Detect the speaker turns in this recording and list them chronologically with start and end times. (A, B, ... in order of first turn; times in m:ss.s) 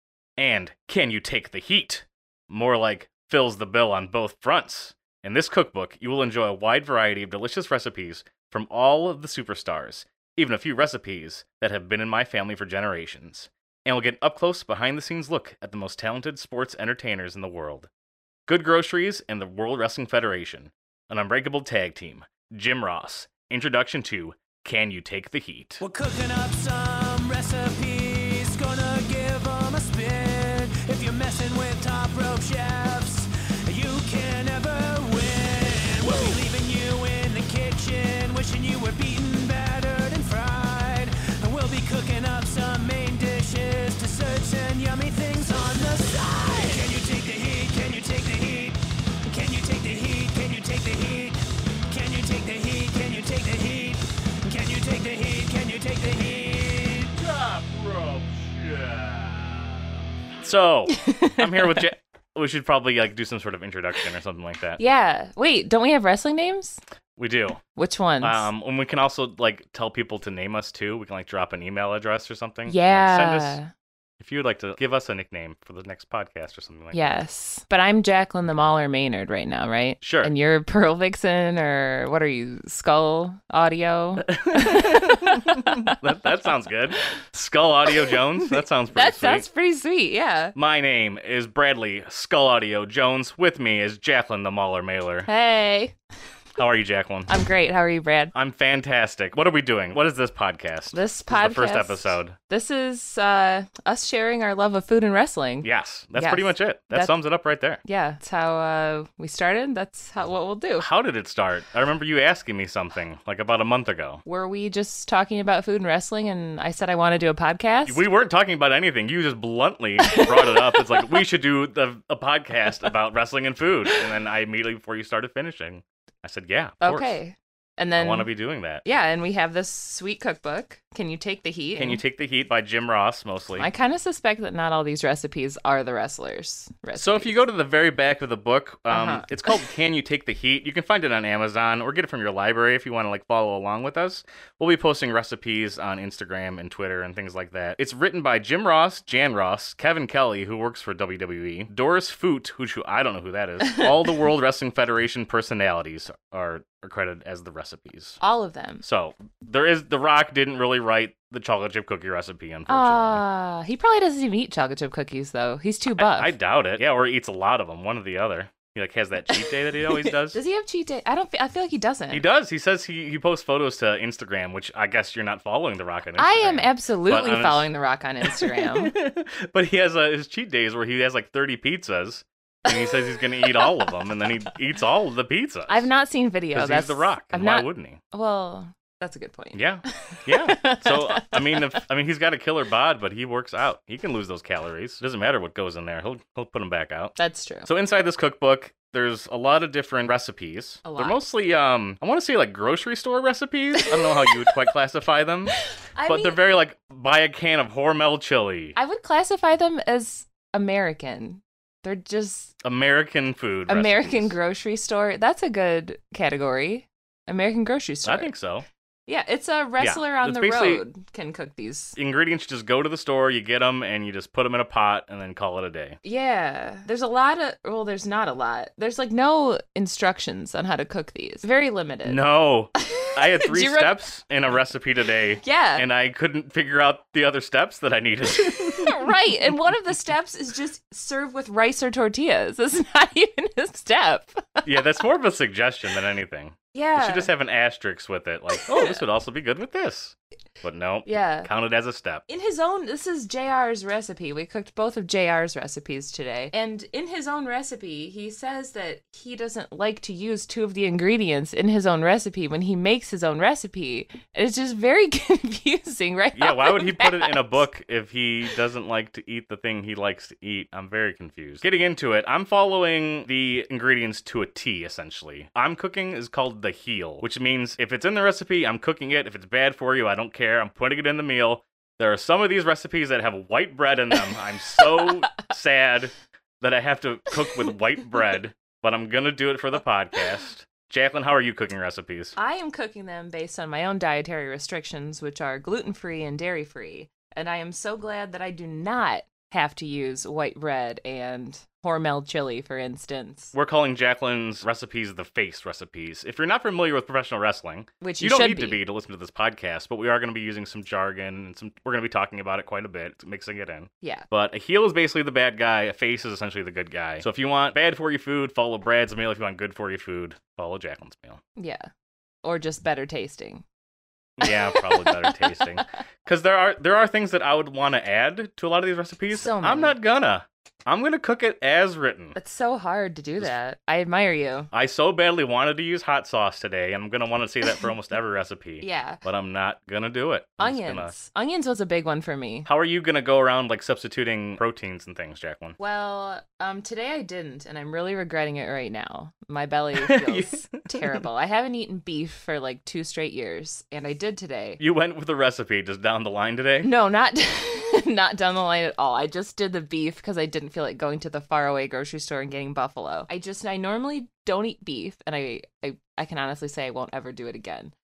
0:00.4-0:17.9 A
0:18.5-0:25.8 A
0:25.8-0:51.4 B
0:51.9-0:57.1 B
0:57.2-0:59.6 A
1:00.4-1:04.8 A
1:00.9-1:01.9 C
1:04.8-1:06.8 C
1:07.2-1:07.6 A
1:07.8-1:08.5 C
1:08.2-1:13.6 A
1:12.7-1:13.7 C
1:14.2-1:17.2 A
1:16.9-1:26.0 C
1:20.0-1:20.3 A
1:24.2-1:29.5 A
1:27.9-1:30.6 C
1:30.6-1:35.3 A
1:35.3-1:36.0 C
1:36.6-1:37.3 A
1:37.3-1:38.3 C
1:38.3-1:42.4 A
1:40.9-1:47.1 C
1:45.6-1:47.8 A
1:47.8-1:50.9 C
1:50.8-1:54.2 A
1:54.3-1:58.0 C
1:57.9-2:07.2 A
2:00.0-2:01.0 C
2:06.8-2:08.3 C
2:08.0-2:08.8 A
2:08.8-2:12.0 C
2:11.8-2:13.7 A
2:13.6-2:17.4 C
2:17.0-2:38.2 A
2:18.9-2:19.4 C
2:38.2-2:38.8 C
2:38.8-2:43.2 A
2:42.7-2:46.3 C
2:46.0-2:50.4 A
2:49.3-2:52.2 C
2:52.1-2:57.7 A
2:56.2-2:58.9 C
2:58.2-3:05.9 A
3:02.7-3:04.3 C
3:05.7-3:11.8 C
3:06.5-3:08.0 A
3:09.5-3:28.8 A
3:17.2-3:17.7 C
3:20.8-3:21.2 C
3:23.8-3:24.6 C
3:25.6-3:26.4 C
3:28.8-3:32.6 C
3:32.6-3:34.3 A
3:33.7-3:38.3 C
3:38.0-3:38.7 A
3:39.1-3:42.0 C
3:39.8-3:40.8 A
3:42.0-3:46.0 A
3:46.0-3:52.2 C
3:52.0-3:59.0 A
3:52.8-3:54.0 C
3:55.4-3:55.9 C
3:58.5-4:04.9 C
4:04.6-4:12.2 A
4:06.7-4:07.3 C
4:08.6-4:09.0 C
4:11.0-4:11.5 C
4:12.3-4:27.6 C
4:26.3-4:52.4 A
4:44.8-4:45.1 C
4:52.4-5:03.5 C
5:03.5-5:21.4 A
5:08.0-5:08.8 C
5:14.0-5:14.3 C
5:21.6-5:21.9 C
5:22.4-5:23.6 C
5:24.4-5:32.4 A
5:24.4-5:25.8 C
5:29.3-5:30.0 C
5:32.4-5:34.7 C
5:34.7-5:41.1 A
5:38.8-5:39.2 C
5:40.6-5:42.7 C
5:42.6-5:45.8 A
5:45.8-5:54.8 C
5:50.0-5:51.2 A
5:54.8-5:56.9 A
5:56.8-6:07.9 C